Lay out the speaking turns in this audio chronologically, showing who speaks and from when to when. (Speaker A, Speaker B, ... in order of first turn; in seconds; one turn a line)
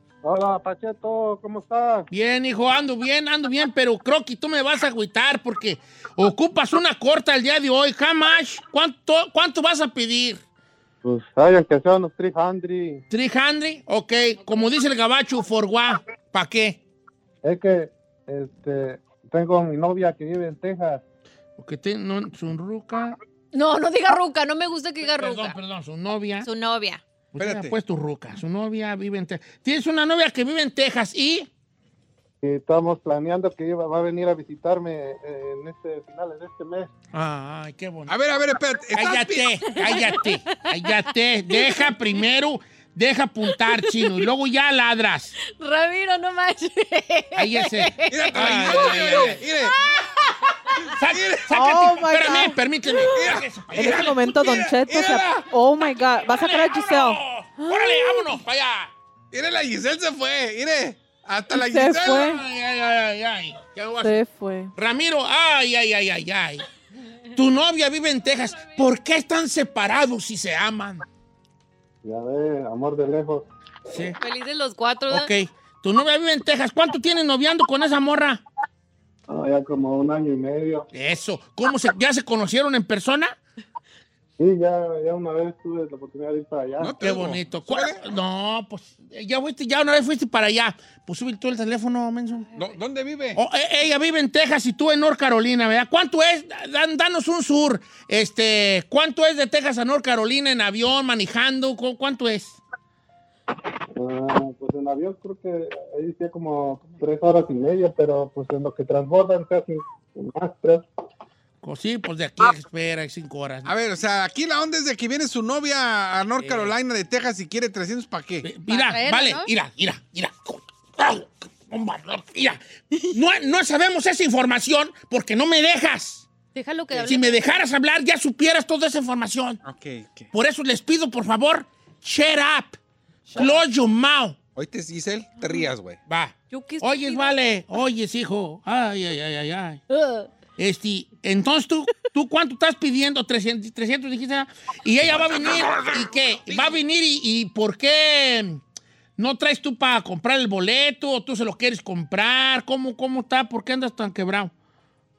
Speaker A: 0.2-2.1
Speaker B: 2.1-10.4
Speaker A: 11.0-13.0
Speaker B: 13.1-16.8
Speaker A: 17.4-21.0
Speaker B: 21.6-23.2
Speaker C: 23.5-25.5
Speaker B: 25.0-26.5
Speaker C: 26.4-27.0
Speaker B: 27.3-31.5
Speaker D: 27.4-27.7
Speaker A: 32.4-36.9
Speaker B: 37.1-38.2
Speaker D: 38.1-39.7
Speaker B: 38.9-45.3
Speaker C: 45.5-50.3
Speaker B: 47.4-49.4
Speaker D: 48.1-49.8
Speaker B: 50.9-54.3
Speaker D: 51.1-51.5
Speaker E: 51.5-52.6
Speaker D: 53.1-55.5
Speaker E: 53.7-58.3
Speaker B: 56.3-58.9
Speaker D: 59.3-62.3
Speaker E: 61.5-62.4
Speaker B: 62.1-64.2
Speaker E: 64.0-64.7
Speaker B: 64.8-66.6
Speaker B: 67.3-71.0
Speaker A: 72.0-73.5
Speaker B: 73.9-74.2
Speaker C: 74.2-75.3
Speaker B: 75.1-78.4
Speaker A: 79.3-80.9
Speaker B: 80.9-83.4
Speaker A: 84.4-86.9
Speaker D: 86.8-88.0
Speaker B: 87.0-92.5
Speaker D: 92.5-93.4
Speaker B: 93.3-102.6
Speaker A: 103.9-110.8
Speaker B: 111.6-113.7
Speaker D: 113.7-118.5
Speaker B: 116.4-116.7
Speaker B: 118.4-126.3
Speaker C: 118.7-119.5
Speaker C: 126.5-127.5
Speaker B: 127.0-129.6
Speaker D: 129.6-130.3
Speaker B: 130.3-132.8
Speaker B: 133.3-134.4
Speaker D: 134.6-136.0
Speaker B: 136.1-139.8
Speaker C: 136.5-137.3
Speaker C: 139.9-140.2
Speaker B: 140.6-148.6
Speaker D: 145.2-146.8
Speaker B: 149.2-154.5